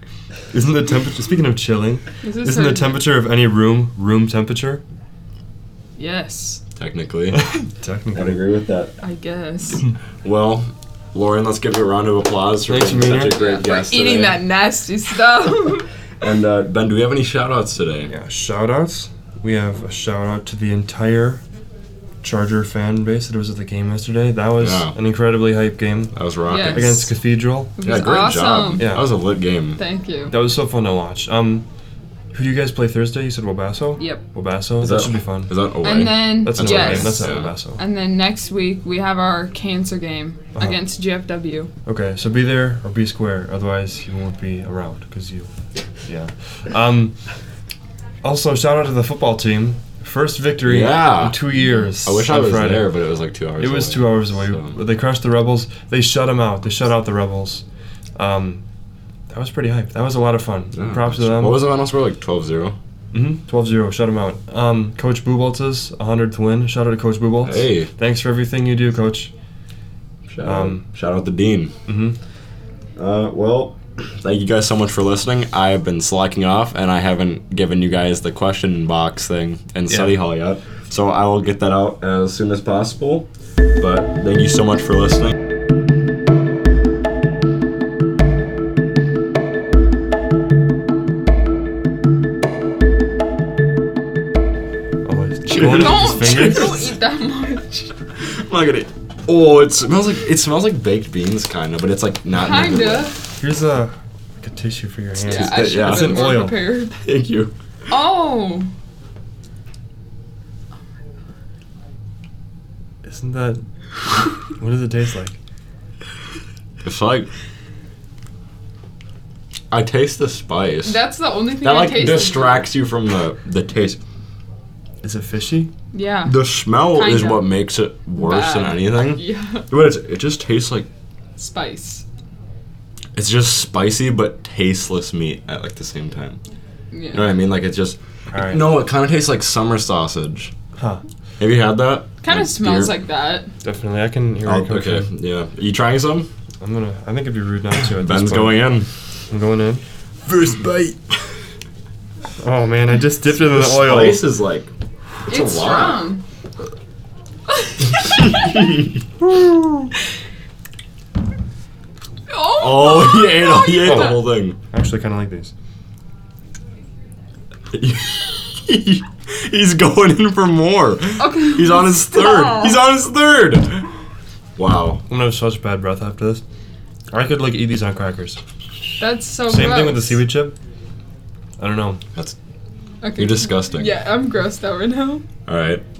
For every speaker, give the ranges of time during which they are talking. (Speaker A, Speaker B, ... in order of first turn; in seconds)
Speaker A: 0.5-4.8, 7.3-8.4, 12.7-13.4, 18.1-21.4, 22.2-27.7, 28.8-29.1, 30.3-31.6, 32.3-35.5, 36.4-37.8, 41.9-45.5, 46.0-47.1, 48.2-52.9, 53.6-57.6, 58.1-58.6, 59.3-61.7, 63.1-69.3, 70.4-70.8, 71.9-72.2, 95.0-96.9, 103.4-106.6, 113.0-113.6, 114.4-115.4, 125.0-125.7, 138.3-138.8, 140.8-141.0, 143.6-145.1, 146.6-148.7, 149.3-149.8, 152.4-154.2, 159.2-159.9, 163.9-165.5, 175.1-176.4, 177.1-178.4, 179.5-180.6, 181.6-182.0
Speaker B: 2.2-3.1, 6.0-6.6, 9.0-9.8, 13.3-15.9, 26.5-27.1, 27.8-28.9, 29.8-30.3, 34.0-34.2, 35.8-41.7, 95.5-97.9, 102.3-103.2, 105.2-107.0, 107.9-108.7, 120.8-122.7, 125.9-127.6, 128.2-129.7, 131.4-132.0, 136.9-137.3, 142.2-143.5, 155.3-156.2, 157.6-158.6, 162.3-164.2, 171.2-172.8, 179.0-180.2, 183.0-185.2
Speaker C: 6.8-7.4, 8.1-8.9, 10.2-14.4, 16.2-18.1, 24.6-24.9, 26.1-27.1, 27.8-29.8, 34.8-37.5, 50.6-54.8, 60.7-62.8, 67.4-67.9, 70.3-71.7, 73.0-83.3, 83.8-85.3, 95.5-96.7, 98.2-103.1, 105.2-106.4, 107.0-107.5, 116.8-117.3, 119.7-121.0, 121.6-124.0, 126.2-130.9, 133.1-136.4, 137.1-140.5, 141.4-142.9, 144.4-146.3, 147.8-148.9, 150.2-151.0, 153.4-154.7, 155.2-156.1, 162.6-164.6, 167.7-173.9, 174.6-175.0, 183.1-184.0, 185.5-185.8